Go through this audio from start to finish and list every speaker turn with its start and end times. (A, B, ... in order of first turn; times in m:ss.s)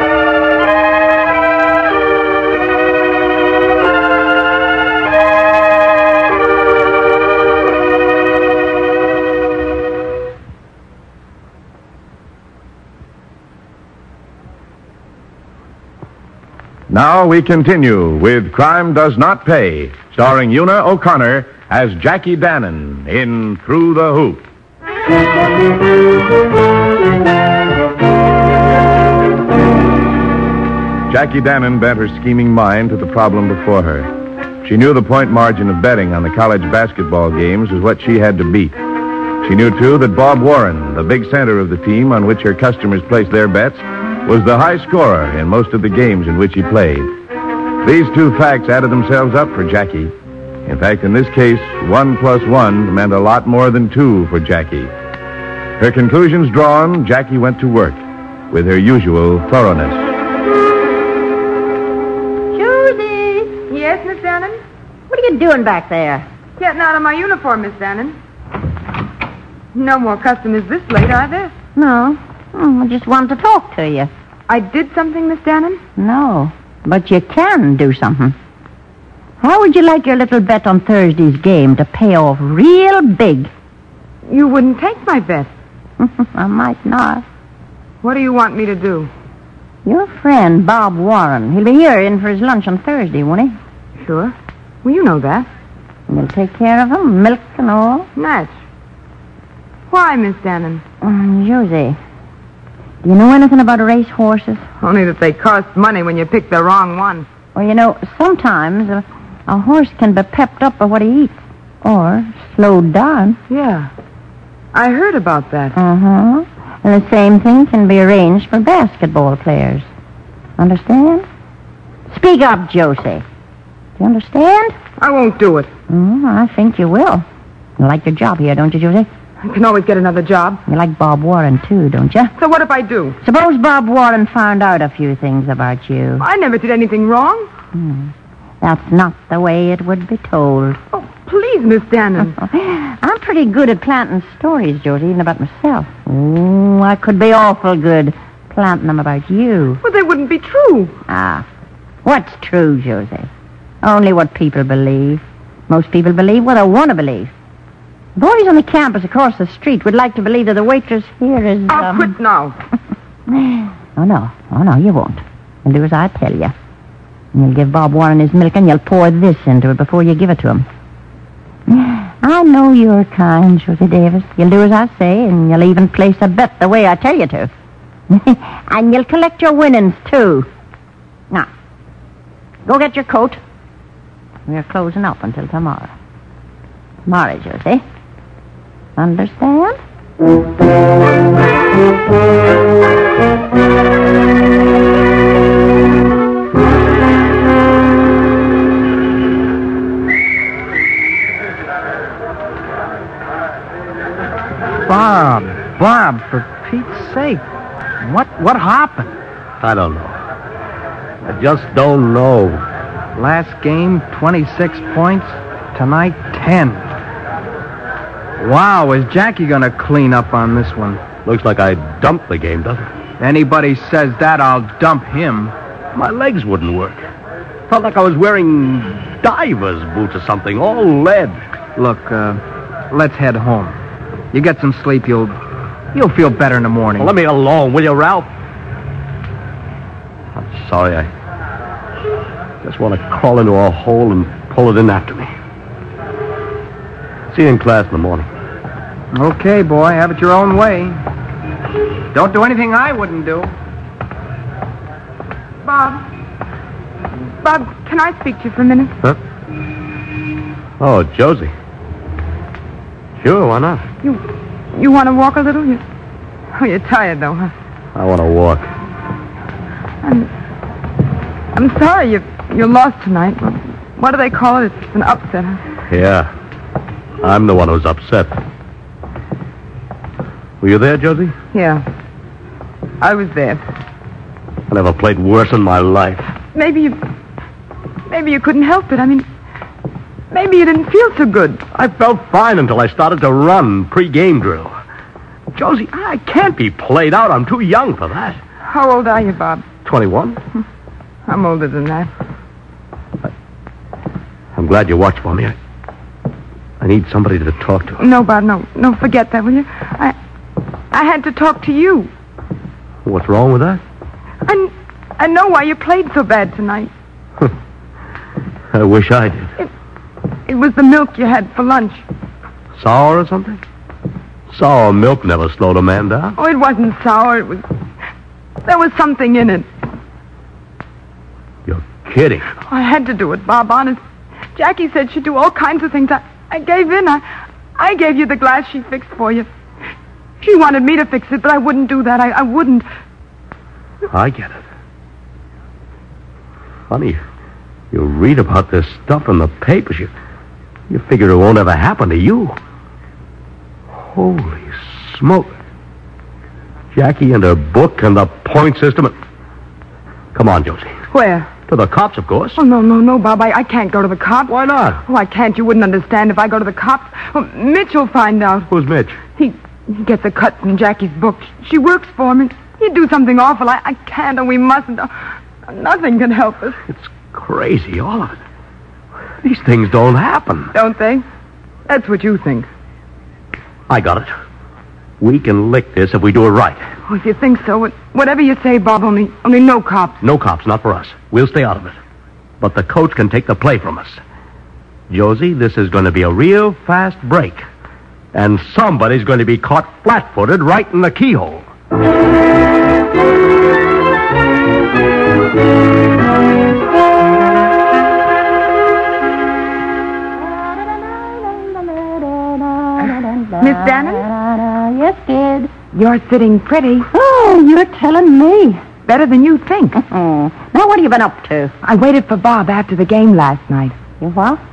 0:16.9-0:24.4 A
0:31.1-0:34.1 A
0:34.6-0:38.8 A
0:39.4-0:47.1 A
0:47.8-0:50.1 A
0:50.6-0:54.9 A
0:55.8-1:00.1 A
1:02.5-1:03.6 B
1:03.7-1:04.6 C
1:05.1-1:06.2 B
1:06.6-1:08.2 C
1:09.7-1:11.5 C
1:11.8-1:14.1 B
1:14.5-1:15.8 C
1:16.0-1:18.4 B
1:19.4-1:23.5 B
1:24.3-1:25.5 C
1:26.0-1:27.2 B
1:28.0-1:29.1 C
1:29.8-1:33.6 B
1:34.0-1:35.5 C
1:36.1-1:38.1 B
1:38.2-1:38.5 C
1:39.9-1:40.8 C
1:41.0-1:42.0 B
1:43.0-1:44.6 B
1:44.8-1:47.2 C
1:47.5-1:53.4 B
1:53.5-1:53.9 C
1:54.7-1:55.8 C
1:55.8-1:59.9 B
2:00.6-2:01.2 B
2:02.1-2:03.2 B
2:04.0-2:04.8 B
2:05.0-2:05.7 C
2:05.9-2:07.2 B
2:07.8-2:09.1 B
2:09.4-2:10.6 C
2:10.7-2:12.3 B
2:12.4-2:13.2 C
2:13.2-2:16.2 B
2:16.2-2:17.5 C
2:17.7-2:20.8 B
2:20.9-2:22.3 C
2:22.4-2:29.8 B
2:29.8-2:31.0 C
2:31.1-2:31.4 B
2:32.0-2:33.3 B
2:33.8-2:37.3 B
2:38.2-2:42.1 B
2:41.7-2:42.5 C
2:43.3-2:46.5 B
2:47.3-2:50.6 B
2:51.7-2:57.5 B
2:58.1-3:00.5 B
3:02.6-3:03.4 B
3:04.5-3:05.9 B
3:07.0-3:07.8 B
3:09.0-3:09.8 B
3:24.8-3:27.4 D
3:28.0-3:29.1 D
3:29.6-3:30.2 E
3:31.2-3:32.6 E
3:33.1-3:36.9 D
3:38.4-3:41.0 D
3:41.2-3:42.9 E
3:43.2-3:45.5 D
3:45.9-3:47.0 E
3:47.7-3:51.4 E
3:51.8-3:53.8 D
3:54.3-3:55.4 D
3:55.9-3:57.1 D
3:57.0-3:58.3 E
4:00.3-4:01.1 E
4:02.6-4:05.3 E
4:07.3-4:08.3 E
4:09.1-4:11.0 D
4:12.1-4:13.5 D
4:15.6-4:16.0 C
4:17.4-4:19.0 C
4:20.8-4:21.5 E
4:23.2-4:23.8 E
4:24.0-4:25.8 C
4:26.5-4:27.5 C
4:27.9-4:28.7 E
4:30.0-4:30.3 C
4:31.5-4:35.6 C
4:35.9-4:36.3 E
4:37.2-4:38.4 E
4:40.6-4:41.4 E
4:41.5-4:41.8 C
4:43.0-4:43.6 C
4:44.7-4:46.3 E
4:46.5-4:47.0 C
4:48.1-4:49.3 C
4:50.3-4:51.6 C
4:51.7-4:54.7 E
4:55.5-4:58.4 E
4:58.6-4:59.7 C
4:59.8-5:00.4 E
5:01.3-5:02.1 C
5:04.6-5:05.5 E
5:06.8-5:08.0 E
5:08.0-5:10.2 C
5:10.9-5:12.1 C
5:13.0-5:13.8 E
5:14.4-5:16.9 C
5:18.7-5:19.5 E
5:20.5-5:22.0 C
5:22.8-5:23.6 E
5:24.5-5:26.4 E
5:26.4-5:27.6 C
5:28.6-5:29.7 C
5:31.7-5:32.5 E
5:32.6-5:34.0 C
5:34.6-5:37.2 C
5:37.8-5:39.5 C
5:40.4-5:42.8 C
5:44.1-5:44.6 E
5:46.9-5:47.2 E
5:47.9-5:50.1 E
5:50.9-5:52.6 E
5:54.0-5:55.5 E
5:56.9-5:59.2 E
6:00.3-6:01.0 E
6:01.1-6:01.5 C
6:01.6-6:02.6 E
6:02.6-6:08.7 C
6:04.5-6:05.0 E
6:08.7-6:09.2 E
6:09.4-6:15.1 C
6:15.6-6:16.8 C
6:16.9-6:18.4 E
6:19.4-6:20.7 E
6:20.7-6:21.2 C
6:21.9-6:22.7 C
6:23.9-6:24.3 E
6:25.2-6:26.8 E
6:27.1-6:30.2 C
6:30.2-6:32.0 E
6:32.6-6:34.2 E
6:35.1-6:37.6 E
6:38.3-6:41.6 E
6:50.4-6:55.7 B
6:53.6-6:54.2 C
6:55.9-6:57.1 C
6:57.1-6:58.9 B
6:59.0-7:00.0 C
7:00.0-7:01.7 B
7:01.8-7:03.9 C
7:04.2-7:04.6 B